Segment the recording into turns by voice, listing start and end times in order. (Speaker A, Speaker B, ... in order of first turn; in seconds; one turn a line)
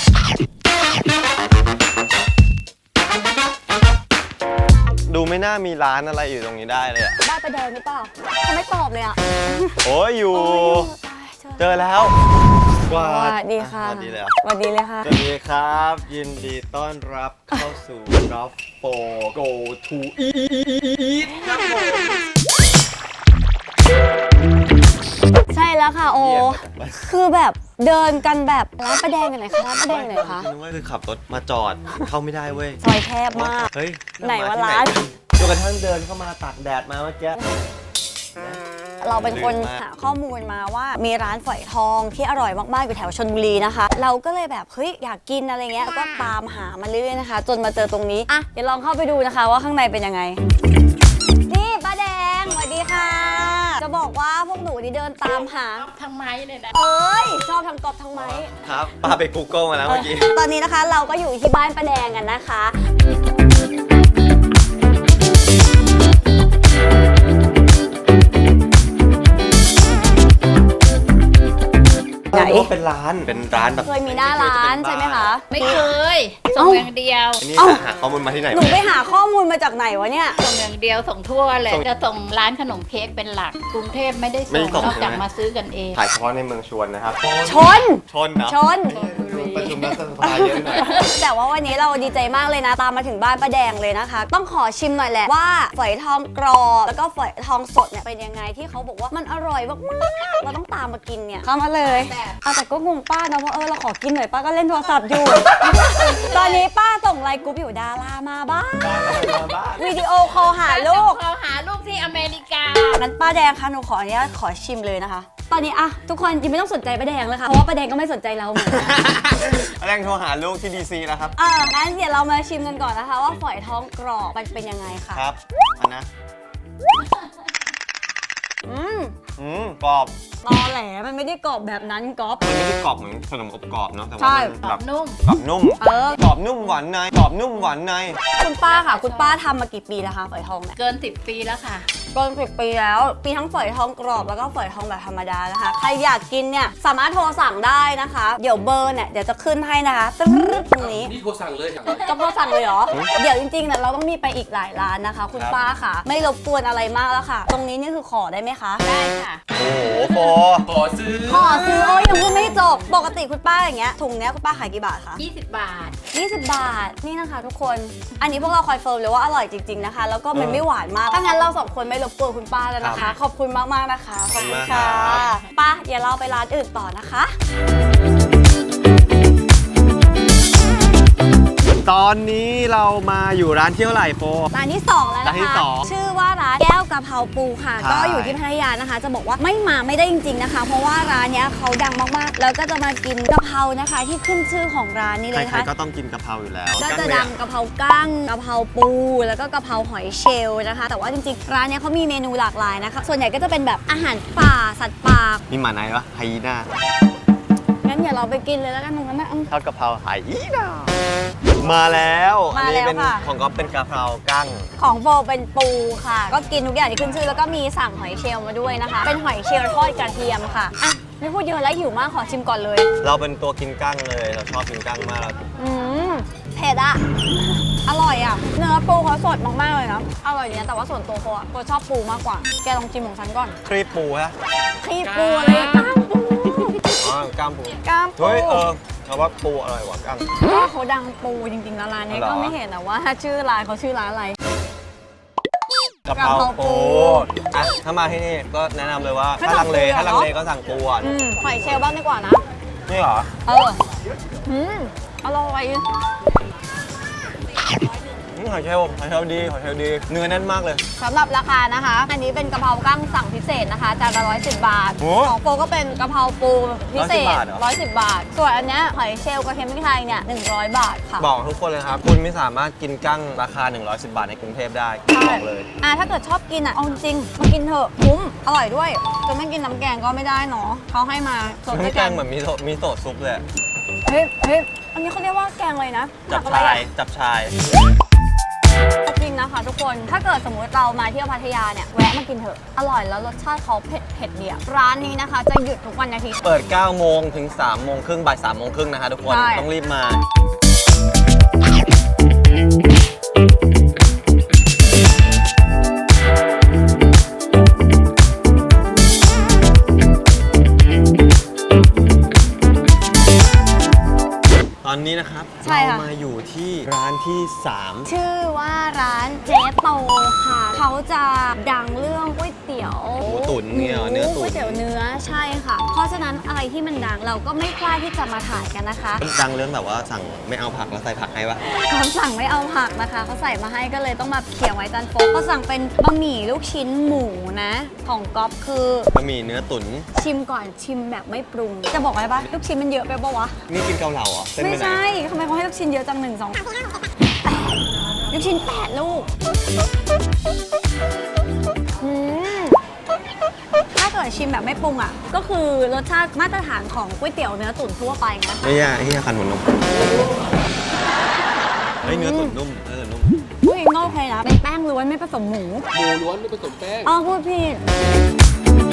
Speaker A: 5.0-7.2
Speaker B: 7.2-9.8
Speaker A: 9.8-10.9
Speaker B: 10.3-11.8
Speaker A: 11.6-12.1
Speaker A: 12.8-14.3
Speaker B: 12.9-15.1
Speaker A: 15.0-22.2
Speaker B: 21.3-21.6
Speaker B: 25.5-30.5
Speaker A: 26.1-27.1
Speaker A: 29.8-32.8
Speaker B: 32.8-35.0
Speaker A: 33.3-37.4
Speaker B: 37.3-37.6
Speaker A: 38.3-39.8
Speaker B: 39.0-50.4
Speaker B: 51.5-55.9
Speaker C: 55.8-56.7
Speaker B: 56.7-58.5
Speaker A: 58.1-60.4
Speaker B: 59.9-62.7
Speaker A: 72.3-75.3
Speaker B: 72.3-72.7
Speaker B: 73.8-75.9
Speaker C: 75.5-77.4
Speaker B: 76.5-76.9
Speaker A: 77.4-78.8
Speaker B: 77.6-77.8
Speaker B: 78.5-80.4
Speaker C: 80.3-86.0
Speaker A: 84.5-85.2
Speaker A: 85.9-91.1
Speaker B: 87.4-89.0
Speaker C: 88.9-90.0
Speaker B: 90.2-111.2
Speaker C: 90.6-91.1
Speaker C: 101.8-102.4
Speaker C: 105.7-106.7
Speaker A: 108.8-110.0
Speaker C: 110.3-113.0
Speaker B: 112.9-119.1
Speaker A: 118.6-121.3
Speaker B: 121.4-125.2
Speaker A: 125.1-126.1
Speaker B: 128.6-129.1
Speaker A: 129.4-130.1
Speaker B: 130.4-132.4
Speaker A: 132.4-138.2
Speaker B: 134.2-134.6
Speaker C: 134.6-135.2
Speaker B: 135.8-136.2
Speaker B: 138.4-140.8
Speaker C: 138.4-139.4
Speaker C: 140.8-141.9
Speaker B: 142.1-151.1
Speaker D: 150.8-152.0
Speaker B: 151.9-158.8
Speaker A: 155.3-155.6
Speaker C: 158.8-159.4
Speaker A: 159.5-160.7
Speaker D: 160.7-161.6
Speaker B: 161.1-165.2
Speaker C: 165.2-166.0
Speaker B: 166.1-177.3
Speaker A: 170.3-170.6
Speaker A: 172.8-173.0
Speaker C: 172.9-173.2
Speaker A: 174.3-175.4
Speaker A: 181.8-184.5
Speaker B: 184.5-195.7
Speaker A: 185.2-185.9
Speaker A: 187.8-188.4
Speaker A: 195.3-197.3
Speaker B: 196.8-205.4
Speaker A: 205.5-206.7
Speaker B: 207.8-209.5
Speaker A: 209.5-210.9
Speaker A: 211.6-214.7
Speaker B: 212.5-213.2
Speaker B: 214.8-222.9
Speaker A: 223.0-225.4
Speaker B: 225.6-233.6
Speaker A: 233.6-234.3
Speaker B: 234.8-237.1
Speaker C: 235.0-236.0
Speaker A: 237.0-240.3
Speaker B: 237.8-238.7
Speaker B: 240.4-244.4
Speaker A: 242.1-242.6
Speaker A: 246.1-251.1
Speaker B: 246.1-247.3
Speaker B: 249.4-250.3
Speaker B: 251.0-252.4
Speaker A: 252.9-253.3
Speaker B: 253.4-253.8
Speaker B: 254.4-255.9
Speaker A: 258.3-260.8
Speaker B: 261.0-271.3
Speaker A: 265.0-265.4
Speaker A: 266.9-267.6
Speaker A: 271.2-275.7
Speaker B: 275.1-282.2
Speaker A: 281.7-283.4
Speaker B: 284.1-286.9
Speaker A: 286.3-287.5
Speaker B: 289.0-296.4
Speaker A: 296.4-300.2
Speaker B: 299.3-299.7
Speaker A: 314.8-318.1
Speaker B: 315.6-316.1
Speaker B: 318.1-329.2
Speaker A: 323.2-324.8
Speaker A: 329.2-331.6
Speaker B: 331.6-339.1
Speaker A: 339.1-340.1
Speaker B: 340.1-343.6
Speaker A: 343.7-345.0
Speaker B: 344.6-349.3
Speaker B: 352.0-352.8
Speaker B: 353.9-358.7
Speaker A: 358.6-360.2
Speaker B: 362.0-362.6
Speaker A: 362.0-363.4
Speaker B: 363.6-365.9
Speaker D: 365.9-367.1
Speaker B: 367.0-367.8